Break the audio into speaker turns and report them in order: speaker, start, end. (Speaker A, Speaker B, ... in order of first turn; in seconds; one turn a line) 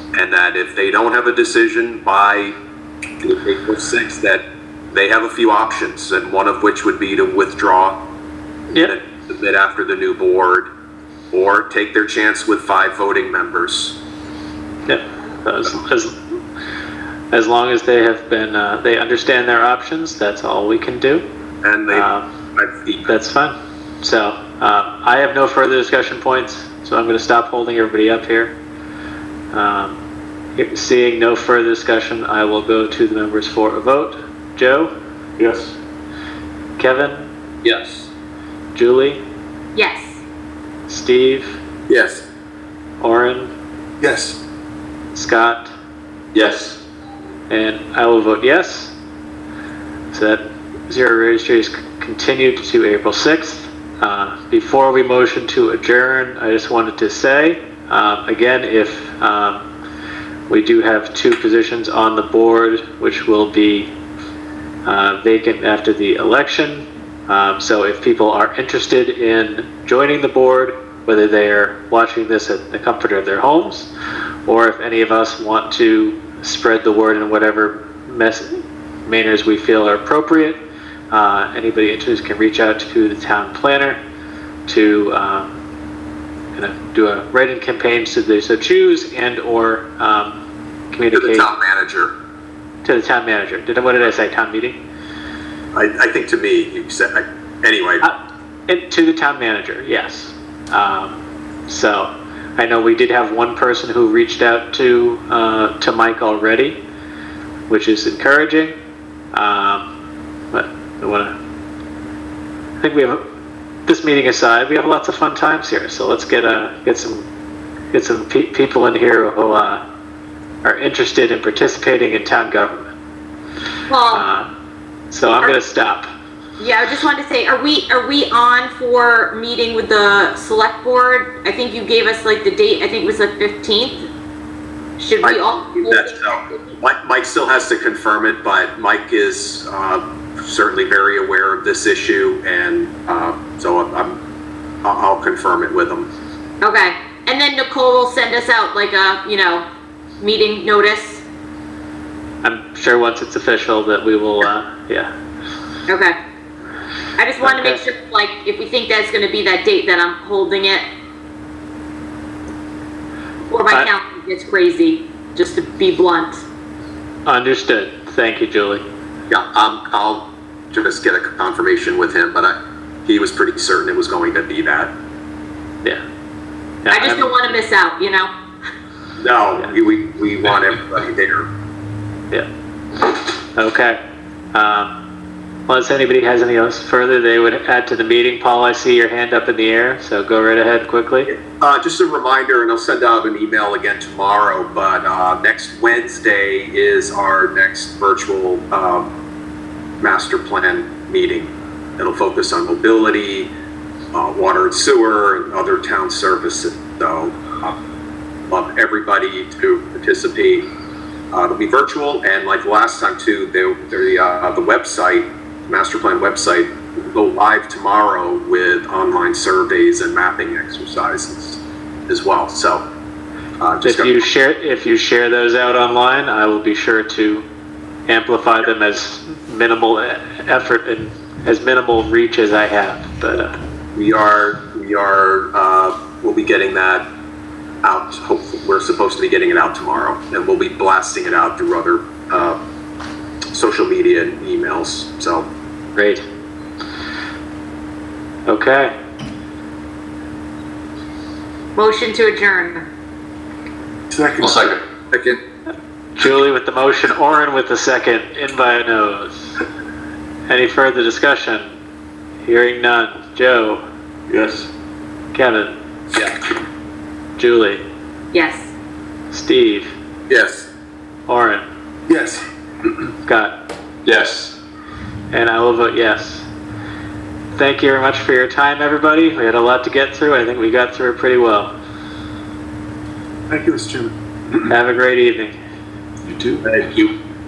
Speaker A: 0.1-2.5
Speaker A: 3.2-8.0
Speaker A: 8.8-10.7
Speaker A: 11.3-14.0
Speaker B: 14.8-16.1
Speaker B: 17.3-21.2
Speaker A: 21.6-23.1
Speaker B: 21.9-22.2
Speaker B: 23.1-28.5
Speaker B: 29.5-29.9
Speaker B: 30.6-34.9
Speaker C: 35.4-35.7
Speaker B: 36.8-37.3
Speaker C: 37.6-38.0
Speaker B: 38.7-39.2
Speaker D: 39.7-40.2
Speaker B: 40.9-41.5
Speaker A: 41.9-42.2
Speaker B: 43.0-43.5
Speaker C: 44.0-44.4
Speaker B: 45.1-45.7
Speaker A: 46.4-46.7
Speaker B: 47.5-48.9
Speaker B: 50.1-59.6
Speaker B: 60.5-63.9
Speaker B: 64.8-73.9
Speaker B: 74.5-84.0
Speaker B: 84.7-85.5
Speaker B: 86.5-90.4
Speaker B: 90.9-91.5
Speaker A: 91.1-92.1
Speaker B: 92.8-94.8
Speaker A: 95.7-98.1
Speaker B: 98.7-101.1
Speaker B: 101.7-106.8
Speaker B: 107.7-108.7
Speaker B: 109.3-109.8
Speaker B: 110.5-111.3
Speaker B: 112.8-113.2
Speaker B: 113.9-117.2
Speaker B: 117.9-119.8
Speaker B: 120.6-122.9
Speaker D: 123.9-124.2
Speaker B: 124.1-124.5
Speaker B: 125.1-126.1
Speaker D: 126.6-134.1
Speaker D: 135.0-136.7
Speaker A: 135.2-144.2
Speaker A: 144.8-146.1
Speaker D: 146.6-149.7
Speaker D: 150.2-151.2
Speaker B: 152.4-155.1
Speaker D: 155.9-156.2
Speaker D: 157.2-160.8
Speaker B: 157.4-157.8
Speaker D: 163.5-166.4
Speaker B: 167.2-168.8
Speaker A: 169.3-174.9
Speaker B: 176.8-177.4
Speaker D: 176.9-178.3
Speaker A: 179.2-181.5
Speaker B: 182.3-184.0
Speaker B: 184.5-184.9
Speaker B: 185.7-191.3
Speaker A: 191.3-199.1
Speaker A: 200.0-203.5
Speaker A: 204.1-207.8
Speaker A: 208.5-210.7
Speaker A: 211.3-222.8
Speaker A: 223.6-224.2
Speaker B: 223.8-227.4
Speaker B: 228.1-233.5
Speaker A: 233.9-237.1
Speaker A: 237.8-242.6
Speaker A: 243.5-245.5
Speaker B: 245.9-246.2
Speaker B: 248.5-248.9
Speaker D: 251.8-252.9
Speaker C: 254.1-254.8
Speaker B: 256.1-259.6
Speaker B: 260.5-261.6
Speaker B: 262.4-263.8
Speaker C: 264.3-264.7
Speaker B: 265.3-265.7
Speaker B: 267.4-267.8
Speaker D: 268.3-268.7
Speaker B: 269.3-269.9
Speaker A: 270.3-270.7
Speaker B: 271.3-271.6
Speaker C: 272.1-272.5
Speaker B: 273.2-273.5
Speaker C: 274.1-274.6
Speaker B: 275.3-276.5
Speaker B: 277.5-281.7
Speaker C: 283.5-284.1
Speaker B: 284.6-285.5
Speaker C: 286.3-287.1